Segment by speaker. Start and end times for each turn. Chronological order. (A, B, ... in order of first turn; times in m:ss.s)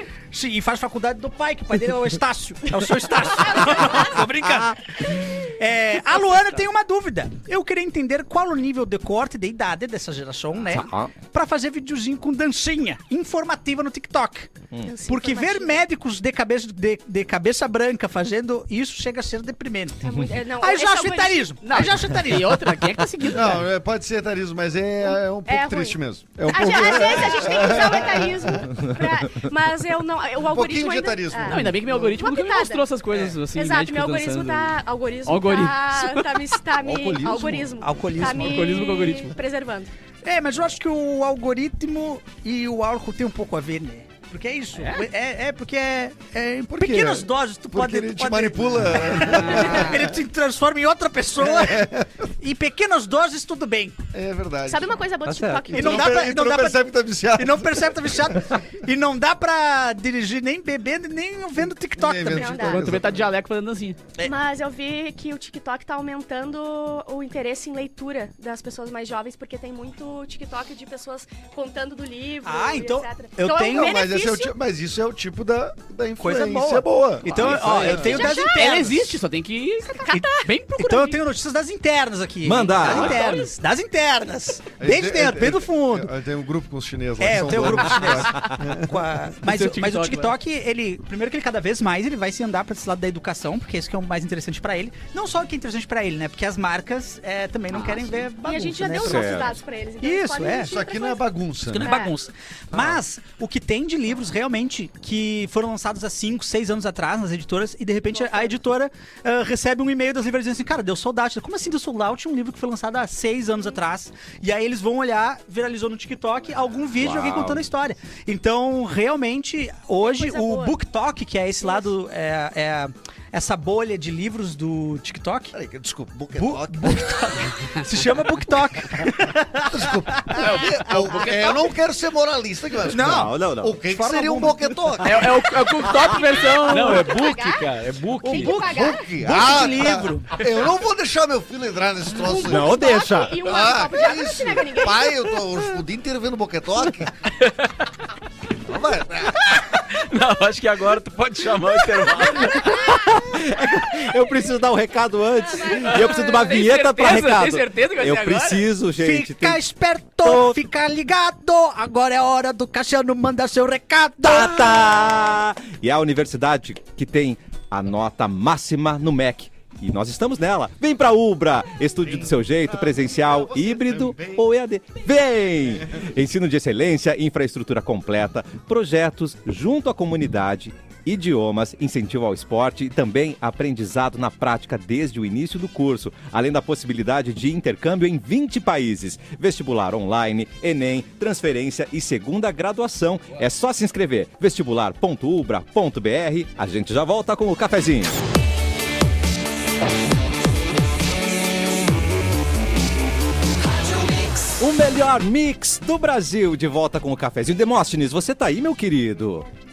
0:00.3-0:23.0 A
0:10.7-0:11.1 B
0:14.8-0:15.8 C
0:20.0-0:21.5 C
0:21.6-0:23.7 D
0:23.3-0:28.8 E
0:25.0-0:32.9 C
0:28.7-0:29.5 B
0:30.4-0:32.2 E
0:31.4-0:36.6 D
0:33.1-0:33.4 E
0:33.5-0:39.9 C
0:36.9-0:37.6 B
0:37.8-0:38.8 A
0:38.2-0:39.3 D
0:40.2-0:54.0 A
0:44.8-0:45.0 D
0:46.7-0:50.2 E
0:49.4-0:50.0 D
0:51.4-0:52.1 E
0:54.1-0:55.0 E
0:54.7-0:56.2 C
0:55.2-0:55.8 B
0:55.7-0:58.2 E
0:55.7-1:02.8 A
1:01.9-1:03.3 E
1:02.3-1:02.8 C
1:02.6-1:04.0 D
1:04.2-1:14.5 C
1:12.4-1:13.9 A
1:13.5-1:18.3 E
1:16.2-1:19.2 A
1:17.3-1:21.1 D
1:17.9-1:18.8 C
1:19.8-1:21.0 C
1:20.1-1:26.1 A
1:22.4-1:23.2 B
1:22.8-1:23.5 D
1:24.8-1:29.0 E
1:27.2-1:40.7 A
1:29.4-1:30.3 D
1:37.7-1:38.2 D
1:38.4-1:42.1 C
1:39.0-1:39.5 B
1:40.6-1:41.9 E
1:41.7-2:05.6 A
1:57.0-1:57.6 B
2:00.0-2:00.7 C
2:05.5-2:07.5 E
2:06.3-2:10.6 A
2:09.6-2:15.5 E
2:10.4-2:11.5 D
2:12.8-2:15.2 A
2:13.0-2:13.8 B
2:15.0-2:17.1 D
2:16.0-2:17.7 C
2:16.6-2:18.6 F
2:18.2-2:19.1 C
2:18.3-2:18.6 A
2:18.4-2:22.9 E
2:19.1-2:20.3 A
2:22.2-2:25.2 C
2:22.5-2:23.5 B
2:23.4-2:27.2 E
2:27.4-2:27.7 F
2:28.6-2:29.5 E
2:29.4-2:32.8 F
2:32.4-2:39.6 B
2:32.5-2:33.0 C
2:35.5-2:36.4 C
2:35.7-2:38.7 D
2:39.0-2:44.9 A
2:40.2-2:40.6 B
2:44.2-3:18.2 B
2:52.0-2:54.5 E
3:24.5-3:29.5 B